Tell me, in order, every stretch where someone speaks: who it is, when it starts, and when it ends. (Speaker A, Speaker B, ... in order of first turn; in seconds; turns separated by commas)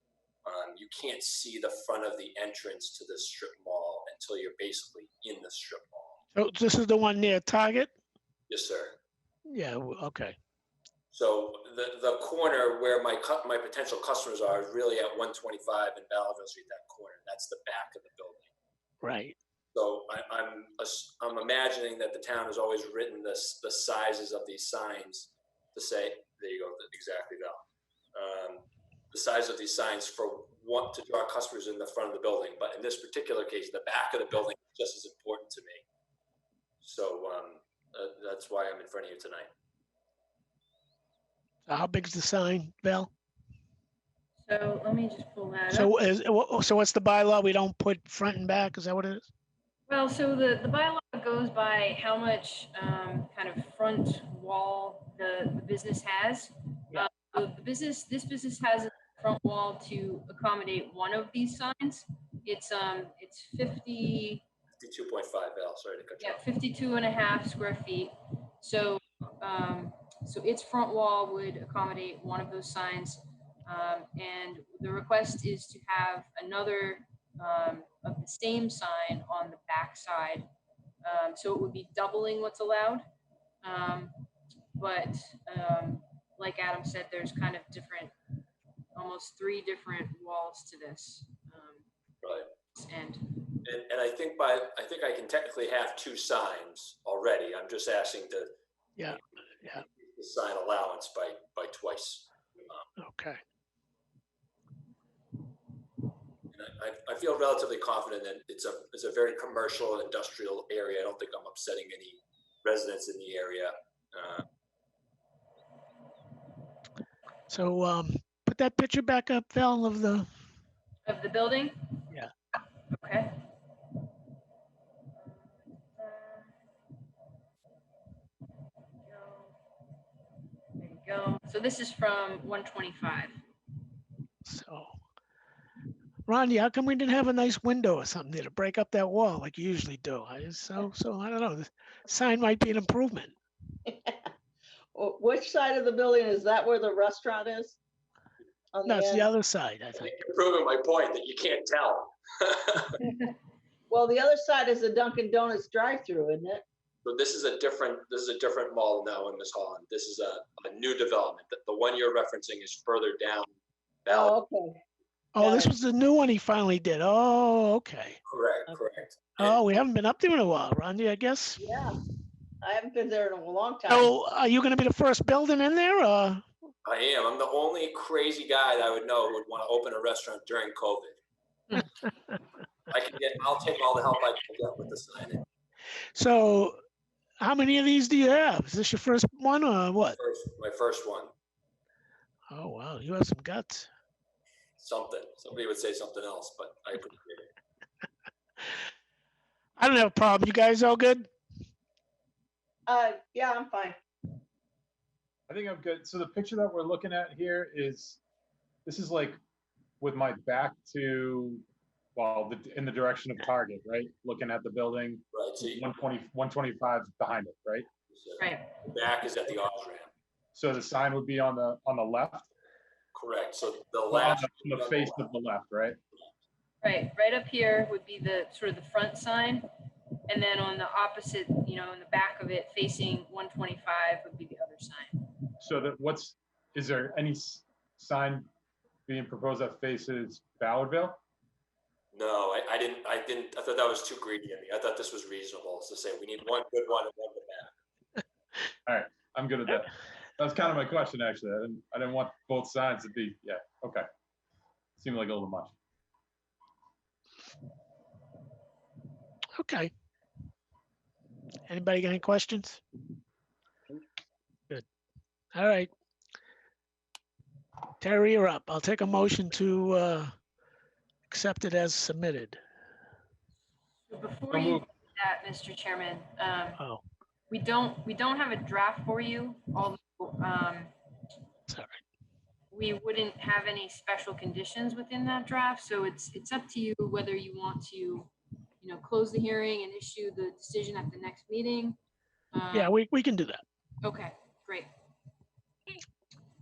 Speaker A: 0.5-6.2, Speaker B: 6.3-7.9, Speaker A: 8.5-9.0, Speaker B: 9.5-10.4, Speaker A: 11.1-18.5, Speaker B: 19.0-19.4, Speaker A: 19.7-27.6, Speaker A: 28.1-35.9, Speaker A: 36.8-39.5, Speaker B: 41.7-43.1, Speaker C: 44.4-45.9, Speaker B: 45.7-49.3, Speaker C: 49.9-64.4, Speaker A: 64.8-66.4, Speaker C: 66.2-80.5, Speaker C: 81.0-83.0, Speaker C: 83.6-84.3, Speaker C: 84.8-88.1, Speaker C: 89.0-91.8, Speaker A: 92.2-92.5, Speaker C: 92.7-93.4, Speaker A: 93.6-98.5, Speaker B: 99.0-99.8, Speaker A: 99.7-102.9, Speaker B: 103.0-103.4, Speaker A: 106.5-114.5, Speaker B: 117.5-120.3, Speaker C: 121.0-122.0, Speaker C: 122.9-123.3, Speaker C: 125.2-126.5, Speaker C: 129.1-129.6, Speaker C: 130.8-133.4, Speaker B: 134.4-134.9, Speaker B: 136.3-143.3, Speaker D: 143.9-144.3, Speaker D: 144.9-147.8, Speaker D: 148.7-149.3, Speaker B: 148.8-150.1, Speaker A: 149.9-153.0, Speaker D: 153.9-156.6, Speaker A: 157.0-163.5, Speaker A: 164.1-164.4, Speaker D: 164.1-164.8, Speaker B: 165.3-168.2, Speaker D: 165.4-165.7, Speaker A: 168.3-169.6, Speaker B: 169.4-171.6, Speaker D: 171.6-172.0, Speaker D: 172.6-174.1, Speaker B: 173.9-176.4, Speaker A: 176.8-181.2, Speaker A: 182.9-185.4, Speaker B: 186.2-186.8, Speaker B: 187.4-190.2, Speaker A: 190.2-191.3, Speaker B: 192.5-193.9, Speaker A: 194.8-197.5, Speaker B: 199.8-201.3, Speaker D: 202.9-204.0, Speaker E: 205.5-208.2, Speaker E: 208.9-209.4, Speaker E: 210.0-211.6, Speaker E: 212.2-217.9, Speaker A: 215.3-215.8, Speaker A: 218.1-220.1, Speaker C: 218.4-218.7, Speaker E: 220.5-222.5, Speaker A: 223.1-225.3, Speaker E: 224.1-226.0, Speaker C: 226.8-229.7, Speaker C: 230.3-235.3, Speaker E: 235.6-238.5, Speaker E: 239.1-241.2, Speaker A: 242.1-247.7, Speaker E: 248.9-254.1, Speaker E: 255.0-255.8, Speaker B: 259.6-259.9, Speaker B: 261.7-262.8, Speaker B: 265.5-265.9, Speaker B: 268.0-270.3, Speaker B: 271.3-272.6, Speaker C: 274.1-276.8, Speaker E: 274.5-274.8, Speaker C: 277.5-280.9, Speaker B: 281.7-282.0, Speaker C: 282.7-288.3, Speaker C: 288.8-292.0, Speaker C: 292.5-292.9, Speaker B: 292.7-293.6, Speaker C: 294.0-294.9